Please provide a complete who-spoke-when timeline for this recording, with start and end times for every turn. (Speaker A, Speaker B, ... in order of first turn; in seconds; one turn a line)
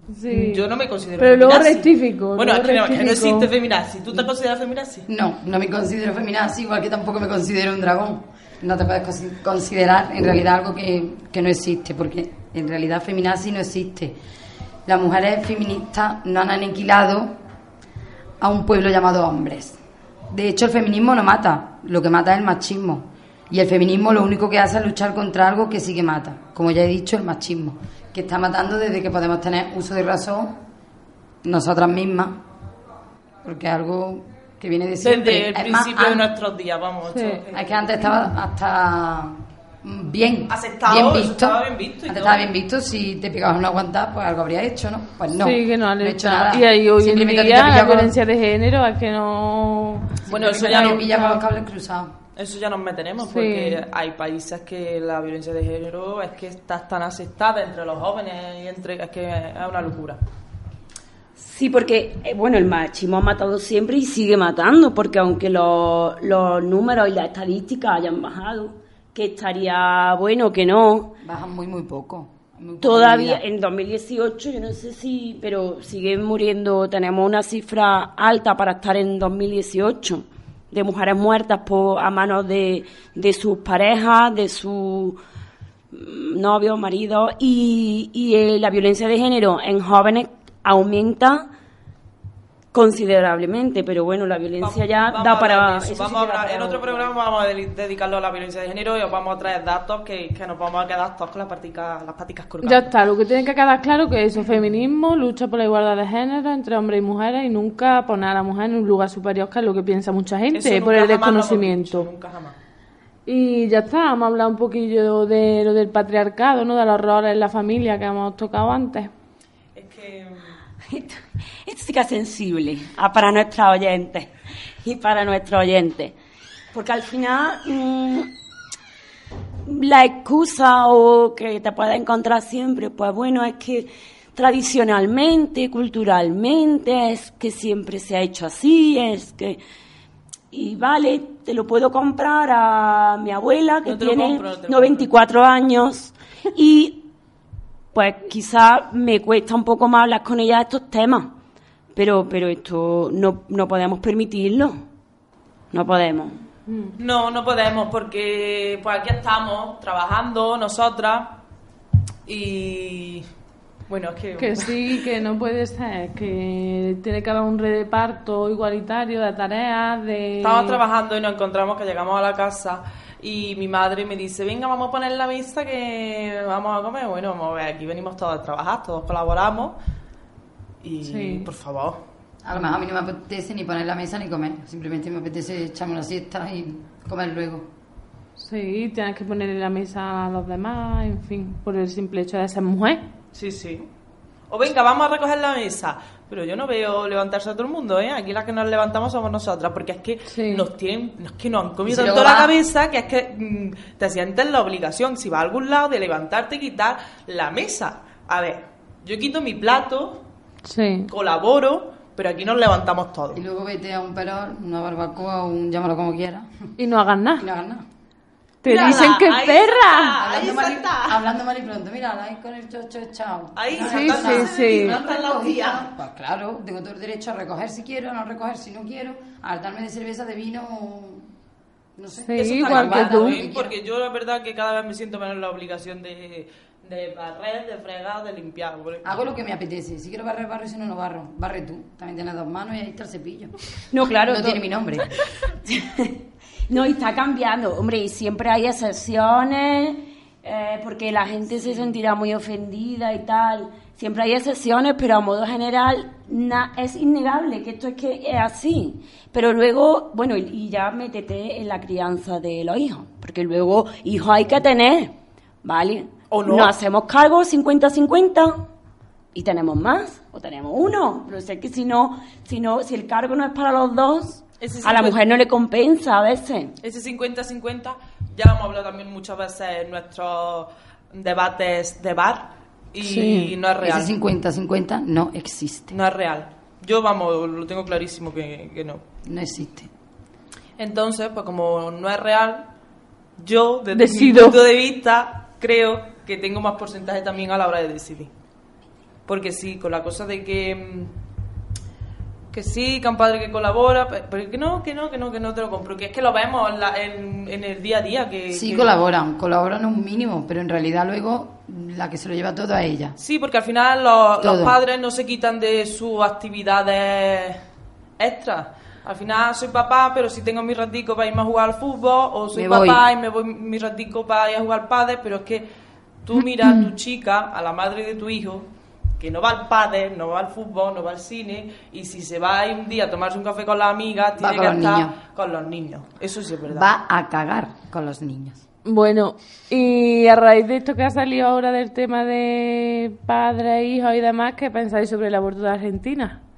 Speaker A: 0.1-0.6
Speaker B: 0.2-5.1
Speaker A: 1.2-3.5
Speaker C: 5.1-14.2
Speaker C: 14.8-17.3
Speaker C: 18.4-30.6
Speaker C: 31.4-32.4
Speaker C: 33.4-36.3
Speaker B: 35.0-38.1
Speaker A: 37.1-37.4
Speaker C: 37.5-48.2
Speaker B: 40.5-42.5
Speaker A: 45.4-50.2
Speaker C: 50.3-52.1
Speaker B: 50.3-51.3
Speaker A: 50.9-51.4
Speaker B: 52.4-60.2
Speaker A: 53.2-53.8
Speaker D: 61.4-71.1
Speaker C: 71.2-73.4
Speaker D: 72.8-85.2
Speaker D: 85.9-91.5
Speaker D: 92.7-97.1
Speaker B: 94.6-102.9
Speaker A: 102.6-112.1
Speaker B: 110.5-112.5
Speaker A: 113.3-119.1
Speaker B: 119.7-120.5
Speaker D: 120.9-124.3
Speaker D: 124.8-126.1
Speaker D: 126.7-128.3
Speaker D: 129.7-139.6
Speaker D: 140.5-147.1
Speaker B: 143.8-145.1
Speaker D: 147.9-151.3
Speaker D: 151.9-154.8
Speaker D: 155.7-156.4
Speaker A: 156.7-156.9
Speaker B: 157.0-161.4
Speaker B: 162.2-163.2
Speaker B: 163.9-164.8
Speaker A: 164.4-170.8
Speaker B: 170.4-179.8
Speaker B: 180.8-182.0
Speaker A: 181.0-181.5
Speaker C: 182.4-187.7
Speaker A: 188.4-193.0
Speaker B: 193.3-193.9
Speaker B: 194.5-210.2
Speaker A: 200.3-200.6
Speaker C: 201.8-202.6
Speaker A: 210.6-211.1
Speaker B: 211.1-213.4
Speaker C: 213.3-216.5
Speaker A: 216.8-217.5
Speaker C: 217.4-217.8
Speaker A: 218.6-220.2
Speaker B: 218.6-221.2
Speaker C: 220.2-231.3
Speaker B: 223.6-225.9
Speaker A: 223.8-225.0
Speaker C: 232.0-233.7
Speaker A: 232.2-233.4
Speaker B: 232.3-239.1
Speaker C: 239.0-243.5
Speaker D: 243.9-245.0
Speaker C: 244.2-245.1
Speaker D: 245.6-268.6
Speaker B: 266.3-266.7
Speaker D: 269.3-276.7
Speaker B: 274.6-275.2
Speaker B: 276.8-284.1
Speaker A: 283.0-283.5
Speaker C: 283.8-285.9
Speaker B: 285.9-289.0
Speaker C: 289.2-289.9
Speaker B: 290.8-292.7
Speaker B: 293.4-298.3
Speaker A: 293.9-294.6
Speaker B: 299.3-301.1
Speaker B: 302.5-308.9
Speaker C: 308.5-313.1
Speaker B: 313.2-317.6
Speaker C: 314.4-314.7
Speaker B: 318.2-325.6
Speaker C: 322.5-323.0
Speaker B: 326.2-328.6
Speaker B: 329.2-336.9
Speaker C: 334.4-335.1
Speaker C: 336.7-338.6
Speaker A: 338.9-346.4